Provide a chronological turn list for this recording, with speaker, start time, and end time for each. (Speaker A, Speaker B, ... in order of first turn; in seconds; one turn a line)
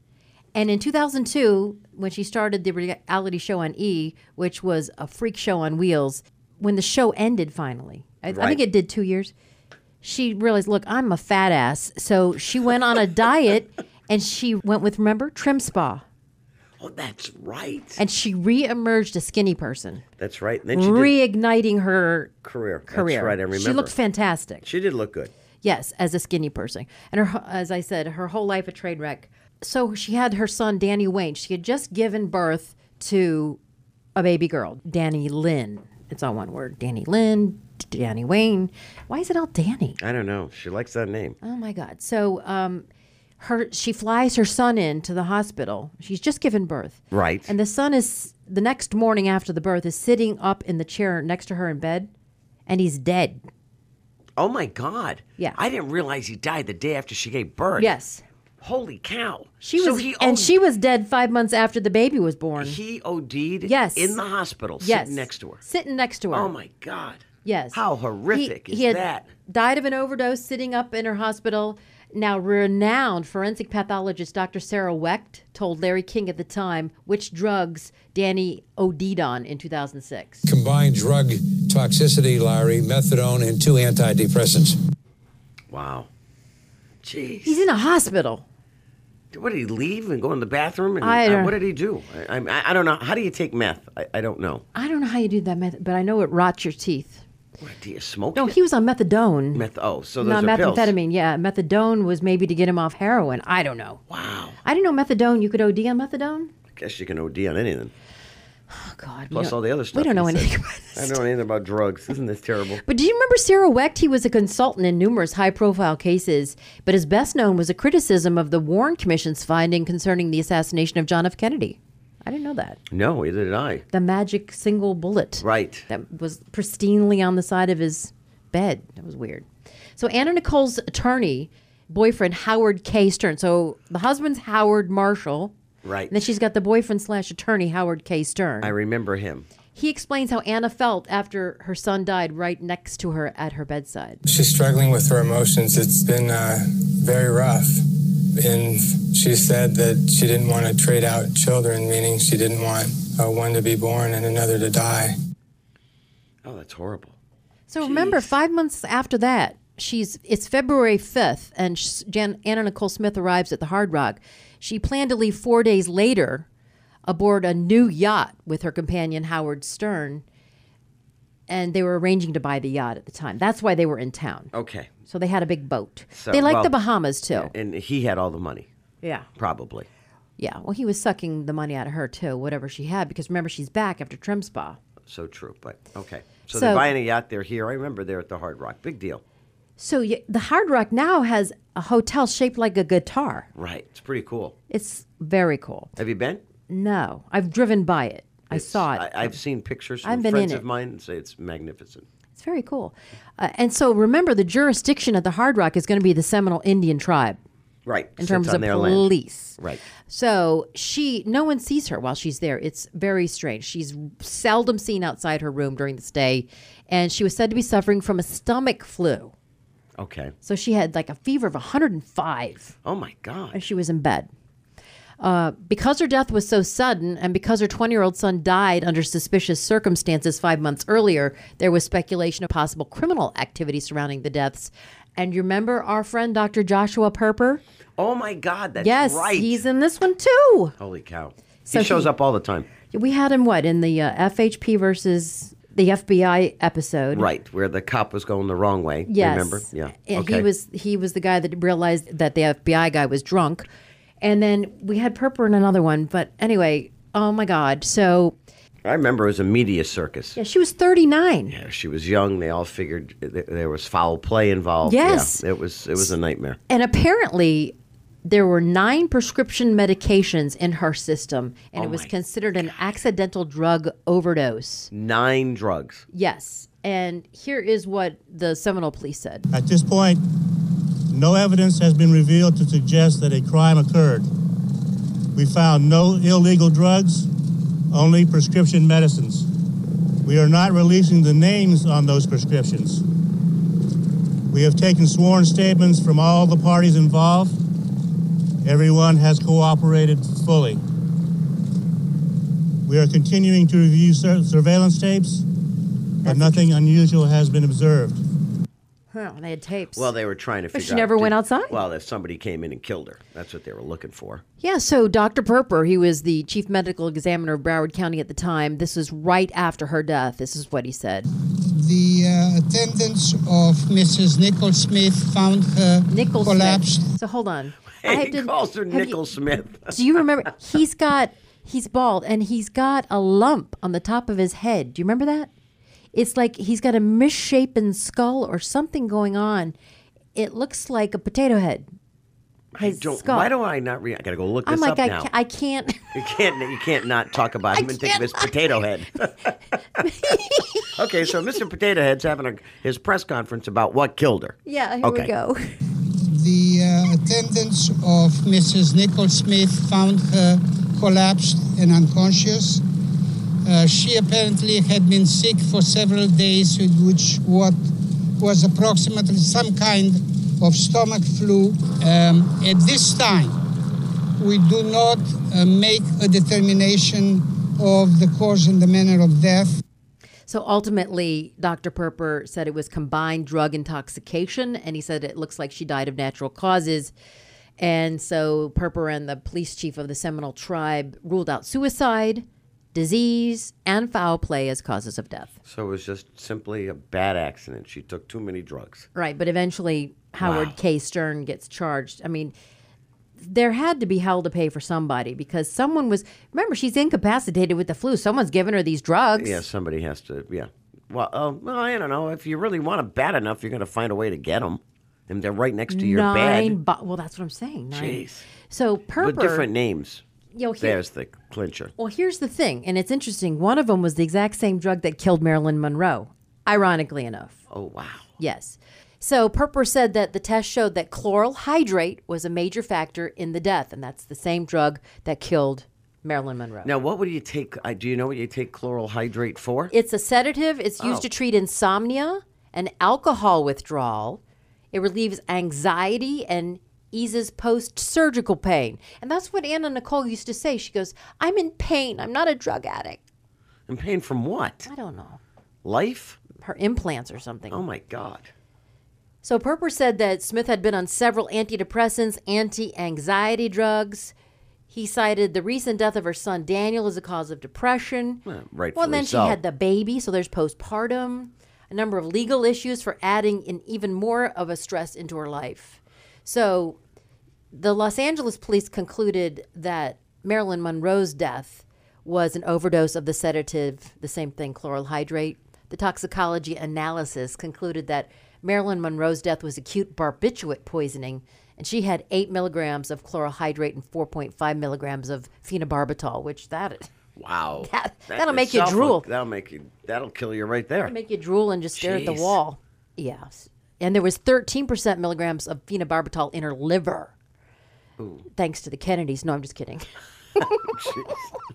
Speaker A: 0.5-9.3
Speaker B: 8.3-8.6
Speaker A: 10.0-16.0
Speaker B: 16.8-18.0
Speaker A: 18.0-20.0
Speaker B: 20.2-21.1
Speaker A: 20.7-22.3
Speaker B: 22.4-23.9
Speaker A: 22.9-24.6
Speaker B: 24.6-25.3
Speaker A: 25.6-33.6
Speaker A: 34.1-40.0
Speaker B: 40.0-41.4
Speaker A: 41.4-42.9
Speaker A: 43.4-52.1
Speaker B: 47.1-47.5
Speaker A: 52.7-53.4
Speaker B: 54.4-57.9
Speaker A: 57.8-58.2
Speaker B: 58.6-60.5
Speaker A: 59.6-62.8
Speaker B: 62.6-65.6
Speaker A: 63.6-64.2
Speaker A: 64.8-66.5
Speaker B: 66.3-69.3
Speaker A: 67.4-67.8
Speaker A: 68.3-80.5
Speaker C: 80.5-84.8
Speaker B: 85.7-86.1
Speaker B: 87.0-87.6
Speaker A: 87.4-88.4
Speaker B: 89.3-94.6
Speaker A: 91.0-91.5
Speaker A: 94.7-97.2
Speaker B: 97.6-98.6
Speaker A: 98.3-99.6
Speaker B: 99.5-100.9
Speaker A: 100.2-104.0
Speaker B: 104.1-104.6
Speaker A: 104.6-106.5
Speaker B: 106.8-107.9
Speaker A: 108.7-111.2
Speaker B: 109.3-112.8
Speaker A: 112.8-122.8
Speaker B: 122.9-123.8
Speaker A: 123.9-129.4
Speaker B: 125.4-125.8
Speaker A: 130.0-135.5
Speaker B: 135.8-136.2
Speaker A: 136.1-138.7
Speaker B: 138.6-139.4
Speaker A: 139.7-144.2
Speaker D: 144.2-147.8
Speaker D: 148.3-155.1
Speaker B: 156.4-157.1
Speaker A: 157.7-166.4
Speaker B: 157.8-158.3
Speaker A: 167.1-170.2
Speaker A: 171.5-174.5
Speaker B: 174.5-174.9
Speaker A: 175.1-177.5
Speaker B: 176.1-176.7
Speaker B: 177.3-178.7
Speaker A: 179.0-179.3
Speaker B: 179.4-179.9
Speaker A: 180.4-184.8
Speaker B: 185.1-189.2
Speaker A: 186.5-186.8
Speaker A: 189.8-193.5
Speaker B: 193.5-194.5
Speaker A: 194.7-195.9
Speaker B: 196.0-196.4
Speaker A: 196.7-199.3
Speaker B: 198.5-202.1
Speaker A: 200.0-200.6
Speaker A: 202.3-207.4
Speaker B: 207.8-209.8
Speaker A: 208.2-219.3
Speaker B: 220.0-220.3
Speaker A: 220.4-222.7
Speaker B: 222.8-223.6
Speaker A: 223.5-224.3
Speaker A: 225.2-237.6
Speaker B: 238.0-239.6
Speaker A: 238.8-240.7
Speaker B: 240.8-242.7
Speaker A: 241.7-242.1
Speaker A: 242.9-247.3
Speaker B: 247.1-250.5
Speaker A: 249.1-253.7
Speaker A: 254.2-258.4
Speaker B: 258.8-260.4
Speaker A: 260.4-261.5
Speaker B: 261.5-266.6
Speaker A: 264.8-265.4
Speaker A: 266.7-274.9
Speaker B: 271.8-272.7
Speaker B: 274.9-276.1
Speaker A: 276.1-279.4
Speaker E: 279.5-280.2
Speaker E: 281.1-284.3
Speaker E: 285.3-287.3
Speaker E: 287.9-289.4
Speaker E: 290.2-293.0
Speaker E: 294.5-297.5
Speaker E: 298.6-300.8
Speaker E: 302.9-305.4
Speaker A: 306.2-306.6
Speaker E: 306.2-308.2
Speaker A: 309.1-310.1
Speaker B: 309.9-314.4
Speaker A: 310.7-311.8
Speaker A: 314.6-321.3
Speaker F: 321.6-327.0
Speaker A: 326.1-329.2
Speaker B: 328.0-329.9
Speaker A: 329.9-335.5
Speaker A: 336.1-339.7
Speaker A: 340.3-341.9
Speaker B: 342.7-345.3
Speaker A: 342.8-343.5
Speaker A: 344.6-346.2
Speaker B: 346.1-349.5
Speaker A: 347.7-348.5
Speaker A: 350.0-350.9
Speaker B: 350.8-355.3
Speaker A: 354.6-355.7
Speaker F: 356.2-362.8
Speaker F: 363.6-367.8
Speaker F: 368.4-373.6
Speaker F: 374.4-379.8
Speaker A: 380.5-387.1
Speaker A: 387.8-395.5
Speaker B: 395.6-399.1
Speaker A: 399.1-402.5
Speaker B: 400.4-400.7
Speaker A: 403.4-409.6
Speaker B: 409.4-416.8
Speaker A: 415.9-419.7
Speaker B: 417.9-418.5
Speaker B: 419.2-420.2
Speaker A: 420.5-421.0
Speaker B: 420.8-421.9
Speaker A: 422.0-427.6
Speaker B: 427.7-428.3
Speaker A: 428.4-436.9
Speaker B: 436.8-439.9
Speaker A: 439.9-444.4
Speaker B: 441.0-441.2
Speaker A: 444.9-453.2
Speaker B: 453.9-454.9
Speaker A: 454.9-455.4
Speaker B: 455.8-456.4
Speaker A: 456.6-457.8
Speaker B: 457.7-458.5
Speaker A: 459.4-464.3
Speaker A: 464.9-468.4
Speaker B: 468.4-469.6
Speaker A: 468.9-477.0
Speaker A: 477.7-497.1
Speaker B: 497.4-501.1
Speaker A: 497.8-499.2
Speaker A: 501.0-507.3
Speaker B: 501.9-502.6
Speaker B: 508.2-508.4
Speaker A: 508.6-511.0
Speaker B: 510.8-511.5